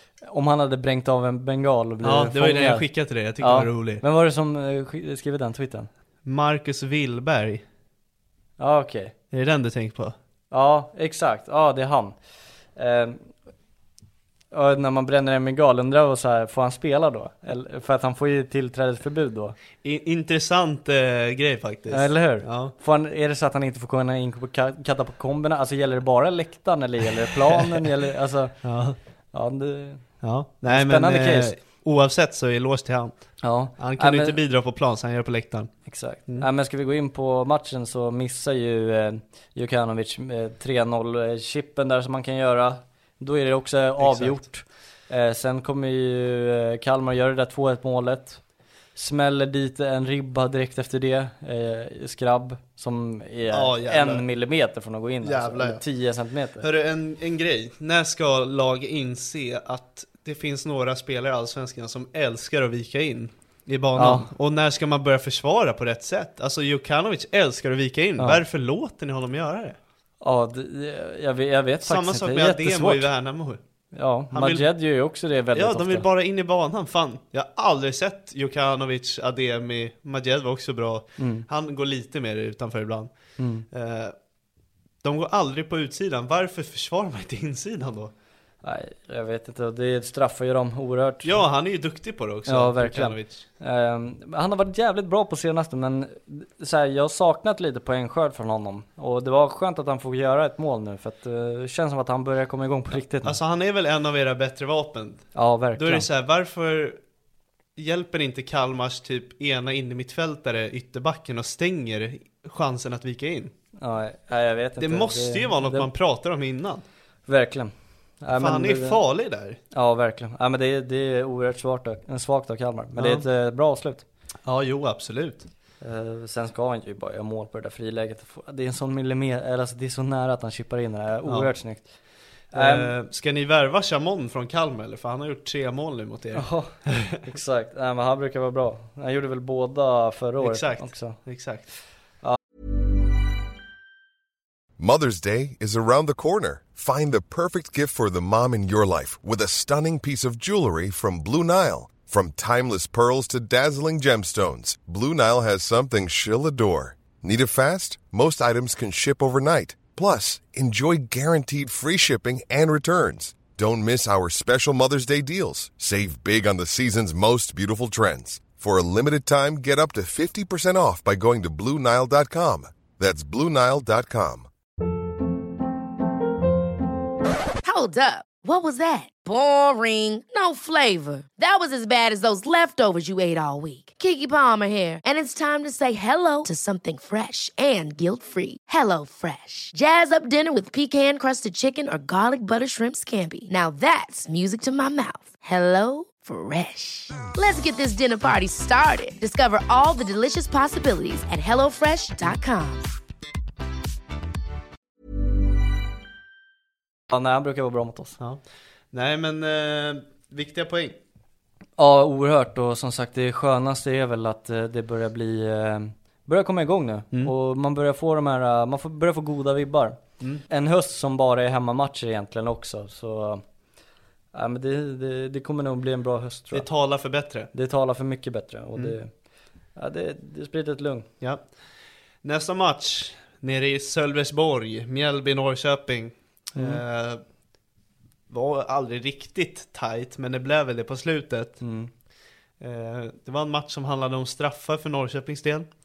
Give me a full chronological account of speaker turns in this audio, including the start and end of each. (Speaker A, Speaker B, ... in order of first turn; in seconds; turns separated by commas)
Speaker A: 0.2-2.9, Speaker B: 2.0-4.0, Speaker A: 3.4-5.9, Speaker B: 6.2-7.6, Speaker A: 8.6-9.1, Speaker B: 9.3-10.1, Speaker A: 10.5-12.1, Speaker A: 12.8-13.3, Speaker A: 14.5-19.6, Speaker B: 19.8-22.7, Speaker A: 21.9-28.6, Speaker B: 28.6-29.0, Speaker A: 29.3-30.1, Speaker B: 30.2-35.7, Speaker A: 30.6-31.5, Speaker A: 33.4-34.4, Speaker A: 35.9-48.4, Speaker B: 44.0-44.4, Speaker A: 48.9-56.7, Speaker B: 53.5-54.2, Speaker B: 55.2-55.8, Speaker B: 56.6-69.8, Speaker A: 64.0-64.3, Speaker A: 70.2-73.1, Speaker B: 71.8-73.6, Speaker A: 73.9-76.0, Speaker B: 74.3-74.7, Speaker B: 75.5-83.1, Speaker A: 81.2-81.5, Speaker A: 83.4-83.6, Speaker B: 83.7-84.1, Speaker B: 85.0-88.1, Speaker A: 88.6-91.4, Speaker B: 91.2-93.4, Speaker A: 92.5-103.3, Speaker B: 103.2-107.0, Speaker A: 105.3-106.0, Speaker B: 107.8-113.5, Speaker A: 113.8-115.9, Speaker B: 114.8-116.8, Speaker A: 117.3-119.0, Speaker B: 118.3-119.6, Speaker A: 119.7-124.0, Speaker B: 123.0-123.2, Speaker B: 124.4-125.5, Speaker A: 125.8-131.9, Speaker B: 132.5-137.2, Speaker A: 132.5-132.9, Speaker A: 136.3-141.2, Speaker B: 140.4-141.7, Speaker C: 144.8-174.5, Speaker D: 177.6-202.9, Speaker A: 207.1-208.2, Speaker B: 208.9-210.9, Speaker A: 211.8-223.4, Speaker A: 224.3-226.7, Speaker B: 226.5-227.5, Speaker A: 227.5-229.1, Speaker A: 229.8-231.1, Speaker B: 232.2-237.2, Speaker A: 236.6-236.8, Speaker B: 238.3-241.6, Speaker A: 241.6-241.9, Speaker B: 242.6-245.7